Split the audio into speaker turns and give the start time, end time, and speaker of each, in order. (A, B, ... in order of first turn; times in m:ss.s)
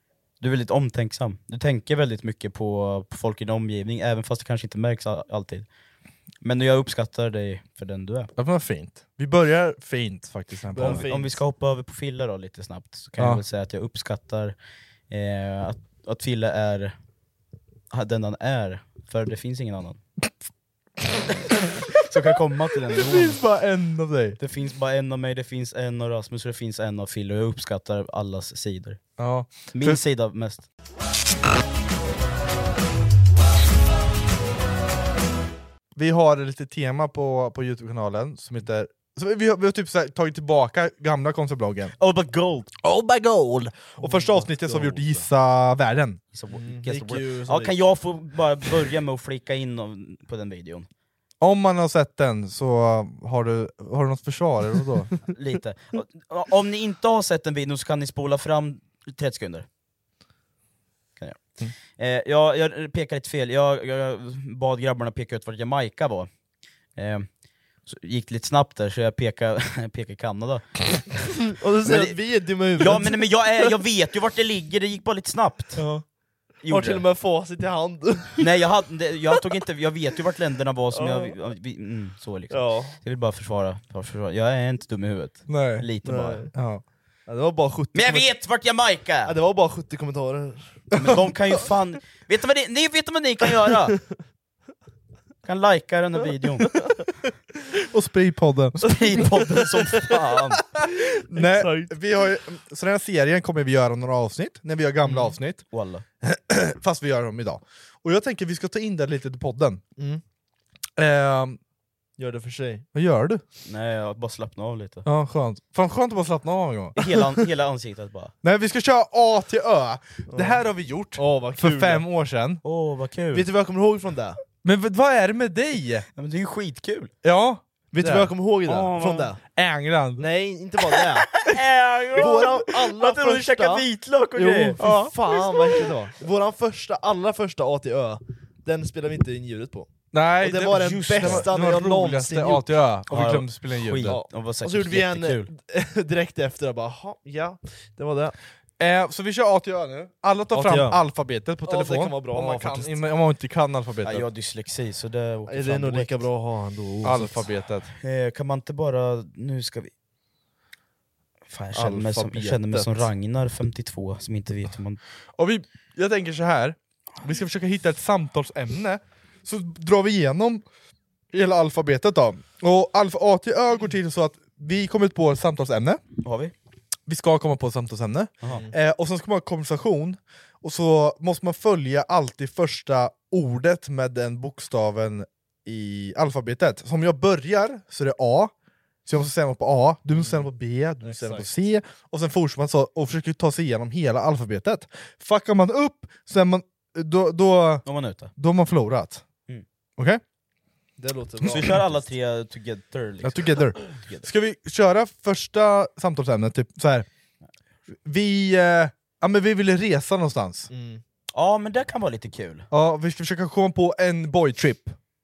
0:00.4-0:05.6 A
0:06.4-0:08.3 A
0:08.4-0:11.1 B
0:10.7-0:11.4 C
0:10.8-0:14.5 A
0:15.1-0:16.9 A
0:17.9-0:20.0 A
0:21.9-0:23.4 A
0:22.9-0:24.4 B
0:24.4-0:29.0 A
0:29.2-0:30.0 B
0:29.7-0:30.7 A
0:36.0-0:41.9 B
0:42.0-0:42.7 A
0:42.8-0:46.2 B
0:44.0-0:45.2 C
0:46.3-0:50.9 A
0:46.5-0:47.8 C
0:51.4-0:55.1 B
0:55.3-0:59.6 A
1:02.0-1:06.3 A
1:07.0-1:07.3 A
1:07.9-1:10.6 A
1:11.6-1:13.7 C
1:11.8-1:12.2 A
1:12.8-1:15.8 A
1:15.8-1:16.0 C
1:16.6-1:17.0 A
1:16.7-1:18.4 C
1:18.4-1:26.5 A
1:20.9-1:21.4 C
1:22.5-1:22.9 C
1:25.5-1:25.8 B
1:26.0-1:26.5 C
1:26.5-1:26.8 B
1:27.3-1:28.3 C
1:27.9-1:29.3 A
1:29.2-1:30.8 C
1:30.9-1:34.0 A
1:35.4-1:36.8 A
1:37.9-1:39.0 B
1:38.8-1:40.6 A
1:39.1-1:41.9 C
1:41.3-1:45.6 B
1:45.0-1:45.3 C
1:45.7-1:46.0 A
1:46.2-1:49.8 B
1:51.0-1:51.6 B
1:52.2-1:52.8 C
1:52.9-1:53.4 B
1:53.6-1:55.0 A
1:55.0-1:57.0 B
1:57.0-1:58.3 A
1:58.4-2:02.6 B
2:00.3-2:00.6 C
2:01.2-2:02.0 C
2:02.6-2:03.5 A
2:03.3-2:04.4 C
2:04.6-2:06.0 B
2:06.2-2:07.1 A
2:07.2-2:08.3 B
2:07.9-2:09.4 C
2:08.6-2:09.3 A
2:09.5-2:10.2 B
2:10.2-2:11.4 C
2:11.0-2:14.8 A
2:12.1-2:13.8 C
2:14.4-2:19.9 C
2:14.8-2:15.2 B
2:20.1-2:24.2 B
2:20.4-2:22.6 C
2:20.4-2:21.5 A
2:23.1-2:25.5 A
2:24.0-2:28.4 C
2:28.8-2:34.3 B
2:30.5-2:31.0 C
2:31.6-2:33.0 C
2:34.0-2:36.2 A
2:35.5-2:37.4 C
2:37.0-2:37.9 B
2:38.0-2:39.9 A
2:41.5-2:45.0 A
2:41.7-2:43.0 C
2:45.4-2:50.6 B
2:51.3-2:56.0 B
2:56.2-2:56.5 A
2:57.1-3:08.5 B
2:58.5-2:58.7 C
3:09.0-3:17.8 B
3:11.0-3:11.5 C
3:17.8-3:18.3 A
3:18.4-3:19.2 B
3:21.0-3:22.0 C
3:21.4-3:24.3 A
3:23.2-3:27.0 B
3:28.0-3:30.7 B
3:30.7-3:31.0 C
3:31.3-3:32.6 A
3:32.7-3:35.0 B